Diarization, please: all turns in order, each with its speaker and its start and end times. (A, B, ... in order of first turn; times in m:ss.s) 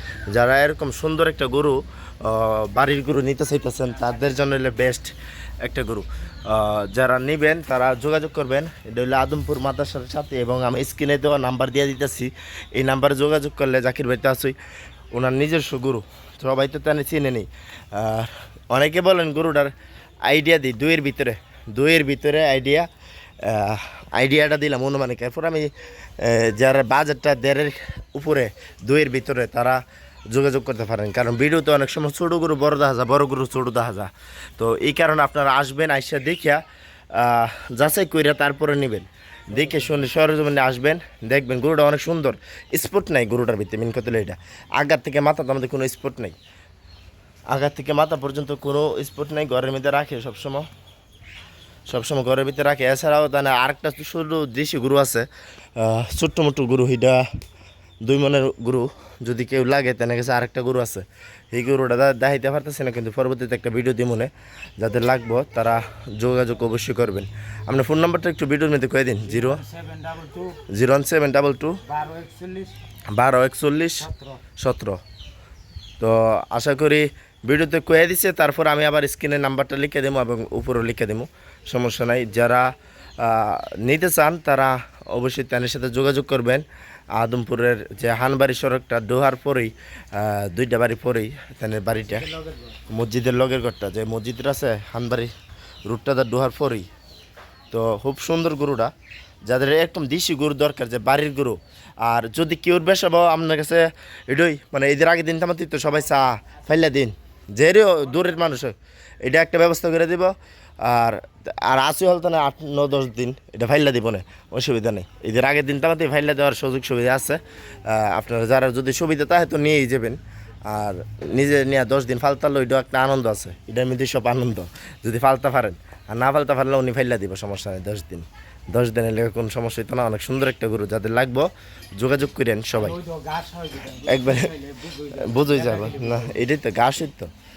0:00.3-0:14.6 A
0:15.1-0:19.7 A
0:20.2-0:22.9 A
0:23.4-0:46.4 A
0:39.6-0:39.9 B
0:47.5-0:50.7 A
0:51.9-0:57.3 A
0:58.0-1:09.6 A
1:09.2-1:10.6 B
1:10.7-1:11.8 A
1:11.8-1:12.8 B
1:13.1-1:15.0 A
1:14.0-1:14.4 B
1:16.0-1:26.7 A
1:27.2-1:32.3 A
1:32.1-1:32.8 B
1:32.9-1:35.3 A
1:35.9-1:36.9 A
1:37.7-1:38.9 A
1:39.5-2:13.0 A
2:12.8-2:16.4 B
2:14.0-2:14.5 A
2:15.2-2:17.3 A